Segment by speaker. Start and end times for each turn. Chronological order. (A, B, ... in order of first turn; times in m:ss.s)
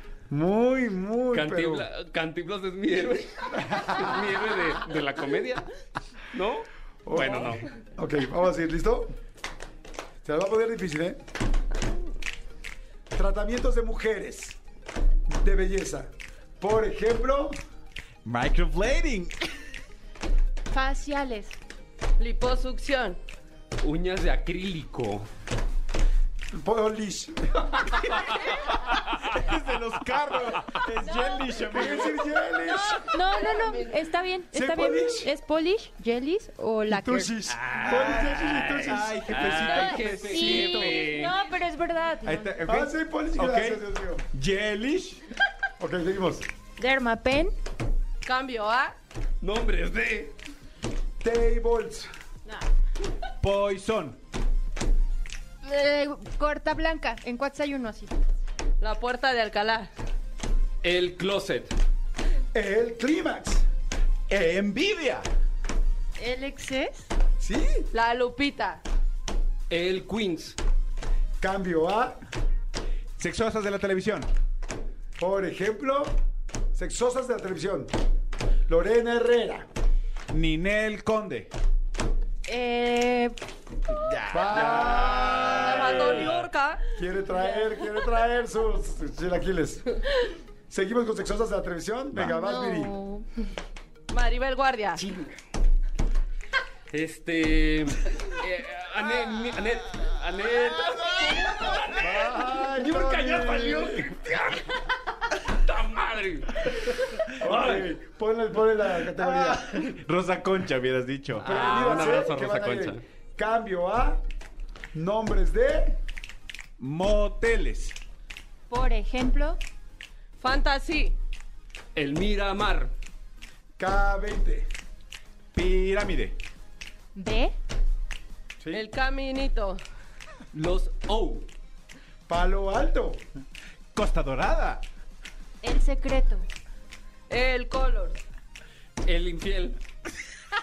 0:00.3-0:01.8 A
0:01.3-0:05.7 B
0:03.5-0:04.1 A
0:06.3-0:07.6 B
0:07.0-0:09.1 A
0:10.2-0:11.2 A
0:13.1-0:14.6 A
0:15.3-0:17.6 A
0:18.2-0:19.4 C
0:20.7-0:21.6 D
0:22.2-0:23.2 E
0:23.8-0:25.3 B
0:26.6-0:27.9 A
0:28.3-0:32.3 C
0:31.0-0:31.5 D
0:31.7-0:33.0 A
0:32.6-0:37.3 D
0:33.0-0:33.9 E
0:34.5-0:35.3 A
0:36.8-0:39.4 A
0:37.6-0:38.2 B
0:37.8-0:41.1 C
0:39.3-0:41.3 B
0:39.6-0:42.6 D
0:42.2-0:43.8 C
0:42.6-0:44.2 A
0:44.3-0:45.2 C
0:45.8-0:46.4 A
0:46.8-0:47.5 D
0:48.2-0:48.9 E
0:49.4-0:50.3 B
0:51.2-0:52.1 A
0:53.4-0:54.2 C
0:55.6-0:58.2 D
0:58.8-0:59.9 E
1:00.8-1:01.7 B
1:02.5-1:03.6 A
1:04.3-1:05.3 C
1:06.2-1:07.1 D
1:07.4-1:07.9 A
1:07.9-1:08.8 E
1:09.7-1:10.6 B
1:11.4-1:12.2 A
1:13.2-1:14.3 C
1:15.2-1:16.1 A
1:16.7-1:17.9 A
1:18.7-1:19.7 A
1:20.3-1:21.5 C
1:22.4-1:23.3 D
1:23.9-1:26.3 C
1:24.3-1:25.6 A
1:24.5-1:26.8 E
1:26.1-1:26.4 B
1:26.9-1:29.9 A
1:30.7-1:32.9 A
1:32.3-1:33.2 D
1:34.1-1:35.0 E
1:35.0-1:35.3 B
1:36.9-1:44.8 B
1:42.0-1:44.1 A
1:45.5-1:47.9 B
1:47.4-1:49.7 A
1:49.0-1:51.6 C
1:51.3-1:53.0 B
1:51.4-1:54.2 A
1:54.9-1:56.0 A
1:56.8-1:58.0 C
1:58.7-1:59.6 D
2:00.4-2:01.1 E
2:01.9-2:02.9 B
2:03.8-2:04.7 A
2:05.5-2:06.4 C
2:07.1-2:07.5 D
2:08.6-2:08.8 A
2:08.7-2:09.8 E
2:10.5-2:11.5 B
2:12.3-2:13.2 A
2:13.9-2:14.8 C
2:15.6-2:16.4 D
2:17.3-2:18.2 E
2:19.0-2:19.8 B